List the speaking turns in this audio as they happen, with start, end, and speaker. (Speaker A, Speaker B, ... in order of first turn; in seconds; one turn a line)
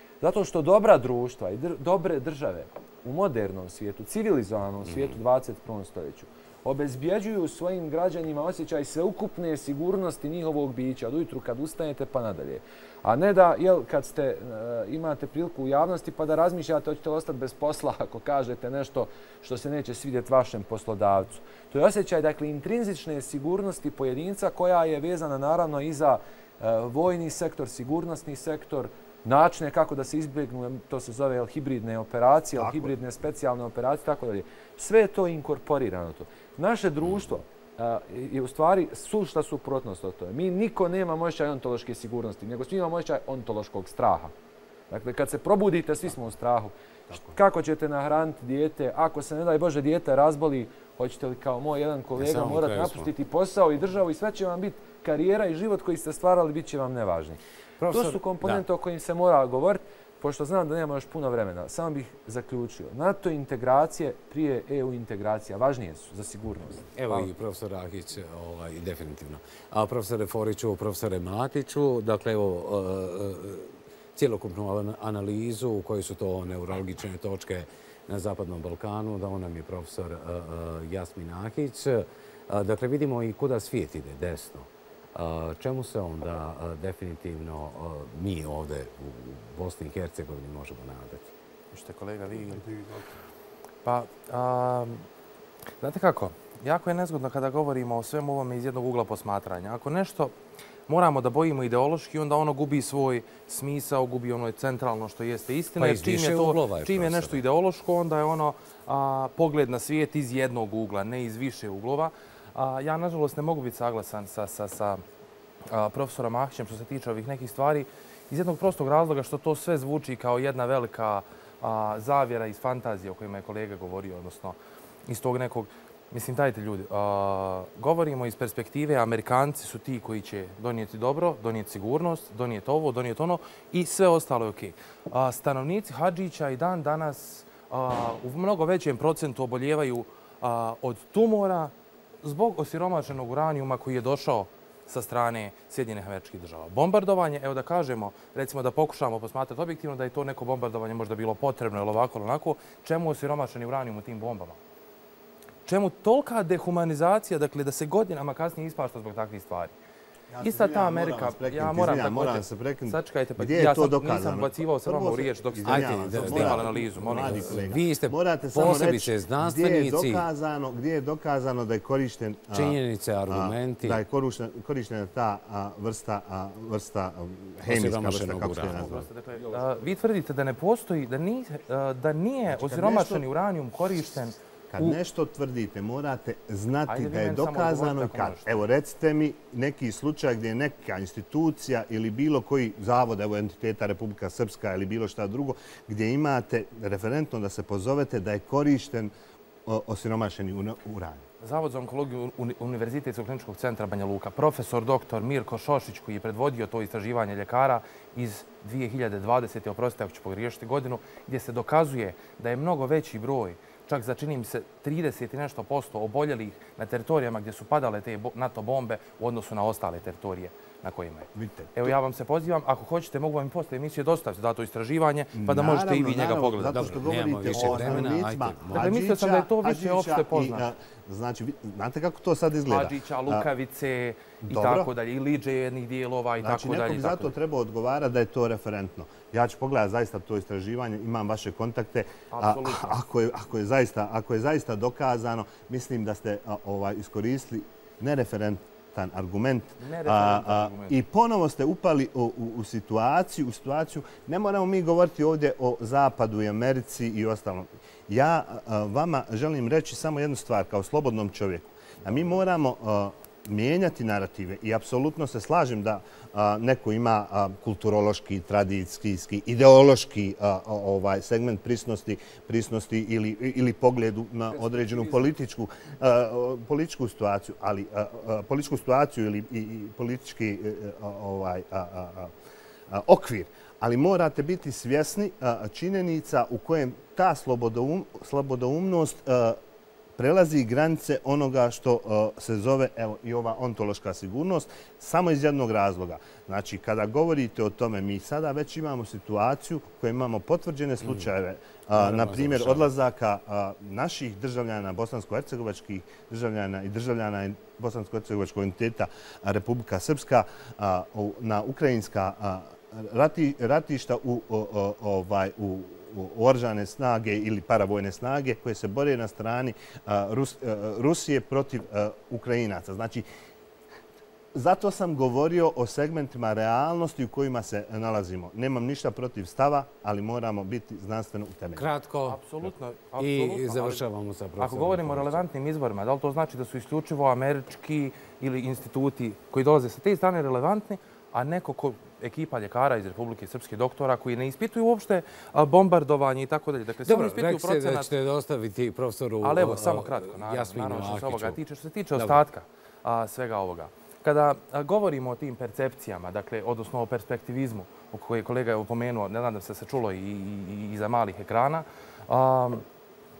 Speaker A: 0.2-44.3
Speaker B: 4.8-5.2
Speaker C: 32.6-32.9
Speaker A: 44.9-57.4
Speaker C: 47.1-47.4
Speaker B: 52.2-53.1
Speaker B: 57.8-58.6
Speaker A: 57.9-67.3
Speaker B: 67.0-91.3
Speaker D: 91.7-92.6
Speaker C: 92.7-93.0
Speaker D: 93.8-95.0
Speaker D: 95.8-100.3
Speaker D: 100.9-115.0
Speaker B: 105.8-107.4
Speaker D: 115.7-141.7
Speaker D: 142.2-154.6
Speaker D: 155.7-159.7
Speaker C: 160.3-172.8
Speaker D: 160.4-167.7
Speaker B: 165.7-170.3
Speaker B: 172.5-174.0
Speaker C: 173.3-179.1
Speaker B: 177.7-179.1
Speaker D: 178.7-185.0
Speaker C: 182.5-183.3
Speaker C: 184.7-199.1
Speaker D: 186.9-188.7
Speaker C: 199.7-201.2
Speaker D: 201.4-227.0
Speaker C: 221.3-222.0
Speaker C: 225.3-233.5
Speaker B: 226.7-228.9
Speaker D: 227.5-228.0
Speaker D: 228.7-230.7
Speaker D: 232.7-237.3
Speaker C: 234.4-234.9
Speaker C: 236.4-282.3
Speaker D: 242.3-243.0
Speaker D: 249.8-251.0
Speaker C: 282.9-289.6
Speaker C: 290.2-323.2
Speaker B: 301.9-302.9
Speaker C: 324.5-331.9
Speaker B: 331.8-335.4
Speaker D: 332.3-334.0
Speaker D: 334.6-348.1
Speaker B: 347.1-351.6
Speaker D: 349.4-362.9